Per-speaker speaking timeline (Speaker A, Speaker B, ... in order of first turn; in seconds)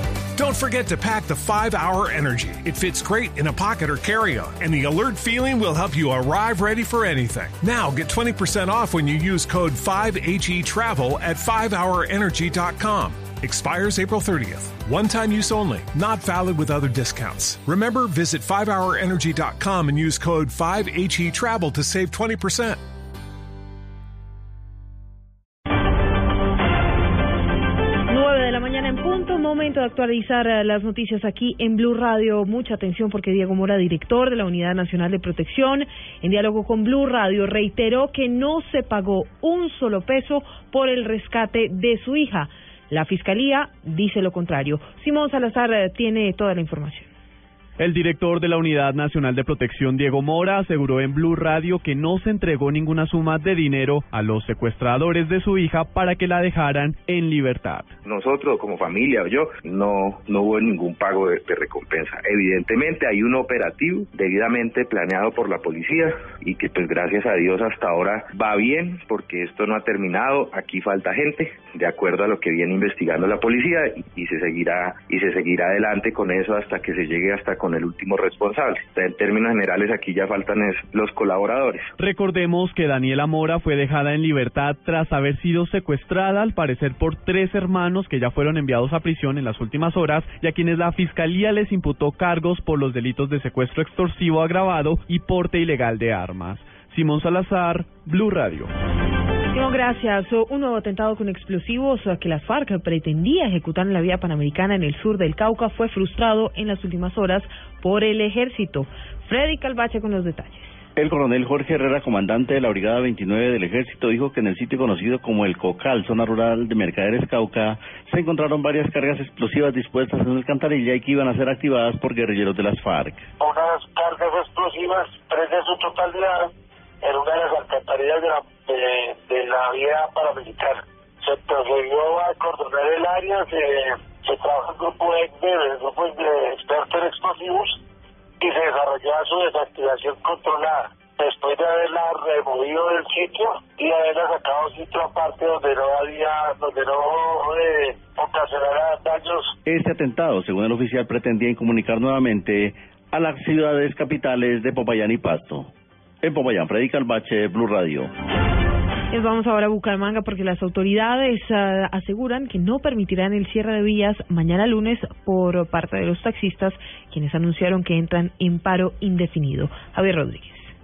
Speaker A: 0.4-22.8
Speaker B: 28.1-47.1, 99.5-110.8, 159.1-170.7
Speaker C: 47.8-57.9, 82.0-98.7
Speaker D: 58.0-81.9
Speaker E: 111.0-123.3, 149.7-155.7, 156.2-158.1
Speaker F: 123.4-126.5, 127.0-137.8, 138.4-149.5